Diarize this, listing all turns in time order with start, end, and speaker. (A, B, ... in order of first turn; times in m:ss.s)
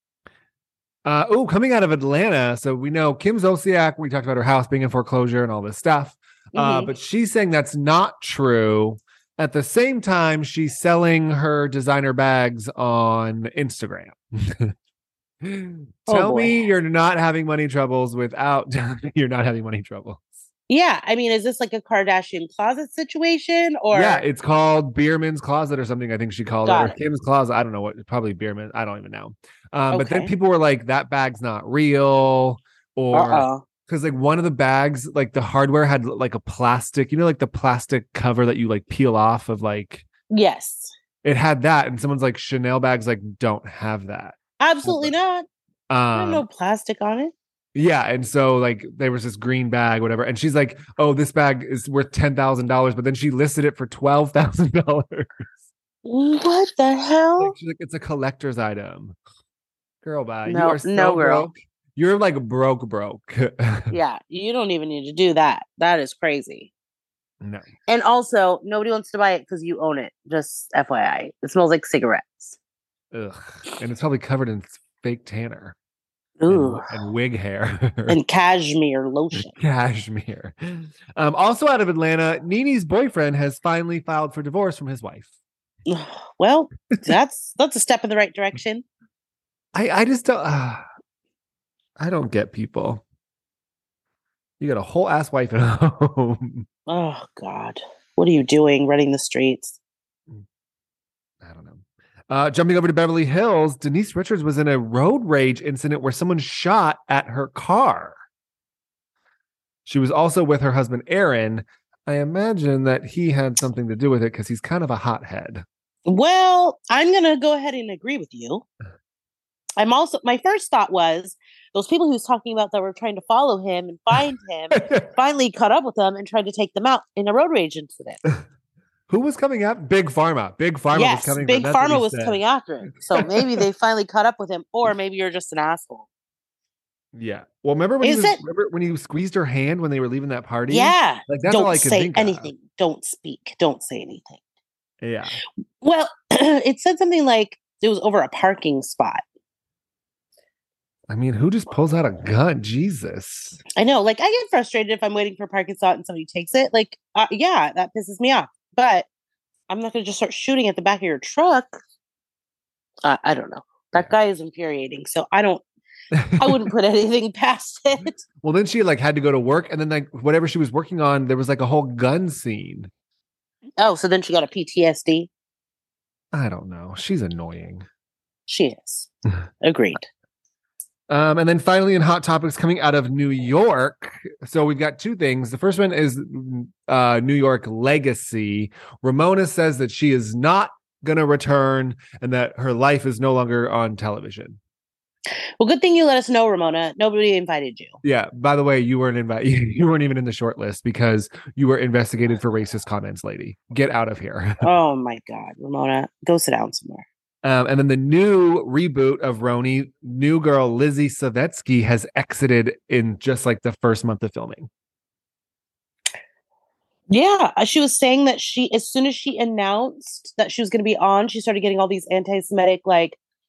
0:01.0-0:14.7 A
0:06.6-0:06.9 B
0:15.4-0:20.3 A
0:16.1-0:16.6 B
0:20.7-0:24.2 B
0:23.9-0:40.1 A
0:26.7-0:27.0 B
0:29.9-0:30.3 B
0:33.1-0:33.6 B
0:40.3-0:40.9 B
0:41.2-0:45.1 A
0:44.6-0:45.4 B
0:45.9-0:46.4 A
0:46.1-0:47.3 B
0:47.8-0:55.5 A
0:56.0-0:57.6 B
0:57.4-0:59.2 A
1:00.0-1:04.0 A
1:00.5-1:01.5 B
1:03.9-1:06.7 B
1:07.4-1:07.7 A
1:07.9-1:12.6 B
1:13.1-1:15.8 A
1:16.4-1:16.9 B
1:16.5-1:18.2 A
1:18.1-1:19.5 B
1:19.4-1:25.3 A
1:25.9-1:28.8 B
1:29.7-1:30.8 A
1:32.0-1:33.0 A
1:34.6-1:36.7 A
1:36.9-1:39.8 B
1:41.4-1:48.2 A
1:49.9-1:55.6 A
1:56.1-1:58.7 B
1:59.8-2:08.2 B
2:04.8-2:05.0 A
2:09.1-2:12.4 A
2:10.9-2:16.1 B
2:13.2-2:13.6 A
2:17.1-2:22.5 A
2:18.0-2:18.4 B
2:20.7-2:24.4 B
2:25.0-2:25.4 A
2:25.8-2:29.2 B
2:31.1-2:33.6 A
2:33.8-2:39.1 B
2:39.7-2:41.8 B
2:43.0-2:45.6 B
2:46.1-2:46.7 A
2:46.4-2:48.2 B
2:48.4-2:52.9 A
2:53.8-2:55.3 B
2:56.3-2:57.8 A
2:58.5-2:59.1 B
2:59.6-3:00.1 B
3:01.1-3:14.6 A
3:15.6-3:18.0 B
3:18.0-3:24.6 A
3:24.6-3:27.1 B
3:27.4-3:34.7 A
3:37.1-3:43.2 B